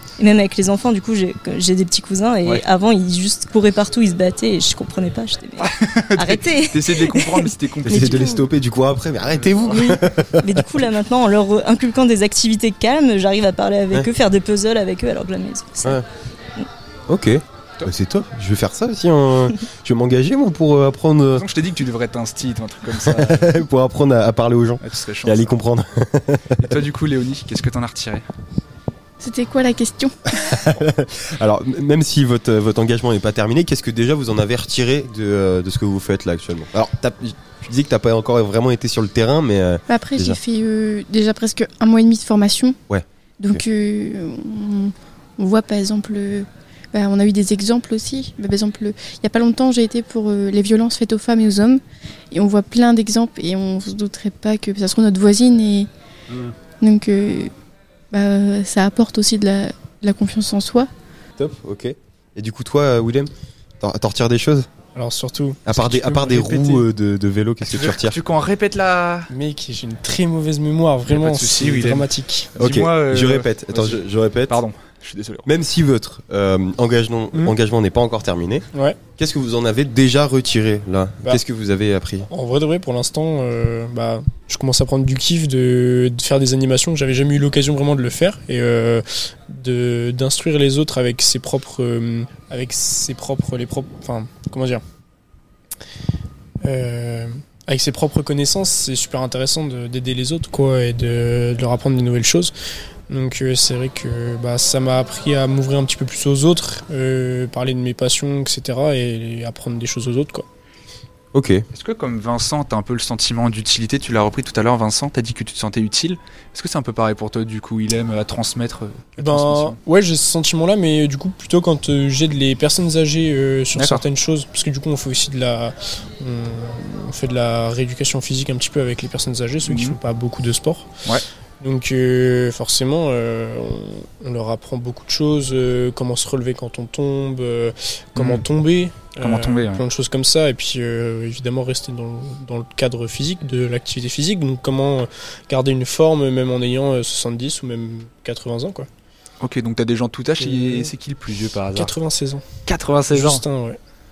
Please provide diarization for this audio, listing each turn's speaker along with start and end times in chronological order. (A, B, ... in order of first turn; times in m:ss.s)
0:00.2-0:08.4 A
0:05.6-0:08.4 B
0:07.8-0:10.7 C
0:09.4-0:09.8 B
0:09.7-0:16.0 A
0:17.1-0:21.4 C
0:21.4-0:23.5 B
0:22.9-0:26.8 C
0:24.8-0:25.5 B
0:26.6-0:28.2 B
0:29.2-0:30.3 D
0:30.3-0:40.4 C
0:39.9-0:42.8 D
0:42.9-0:43.6 C
0:43.4-0:55.9 D
0:56.3-0:56.5 C
0:56.8-0:57.5 D
0:58.1-1:00.9 D
1:01.4-1:04.7 C
1:05.0-1:06.8 E
1:05.6-1:08.2 C
1:07.6-1:09.3 B
1:09.3-1:12.5 E
1:11.1-1:15.5 B
1:12.6-1:14.6 C
1:15.4-1:18.6 C
1:19.2-1:22.3 C
1:22.3-1:34.8 E
1:36.6-1:42.5 E
1:43.1-1:50.4 E
1:51.3-1:51.6 C
1:51.7-1:59.8 B
1:59.2-2:10.9 E
2:03.7-2:04.0 B
2:09.7-2:10.0 B
2:11.6-2:28.9 E
2:18.2-2:18.4 B
2:19.2-2:19.8 B
2:29.4-2:31.9 B
2:30.4-2:30.9 E
2:31.7-2:32.4 E
2:32.6-2:33.4 B
2:33.1-2:33.8 E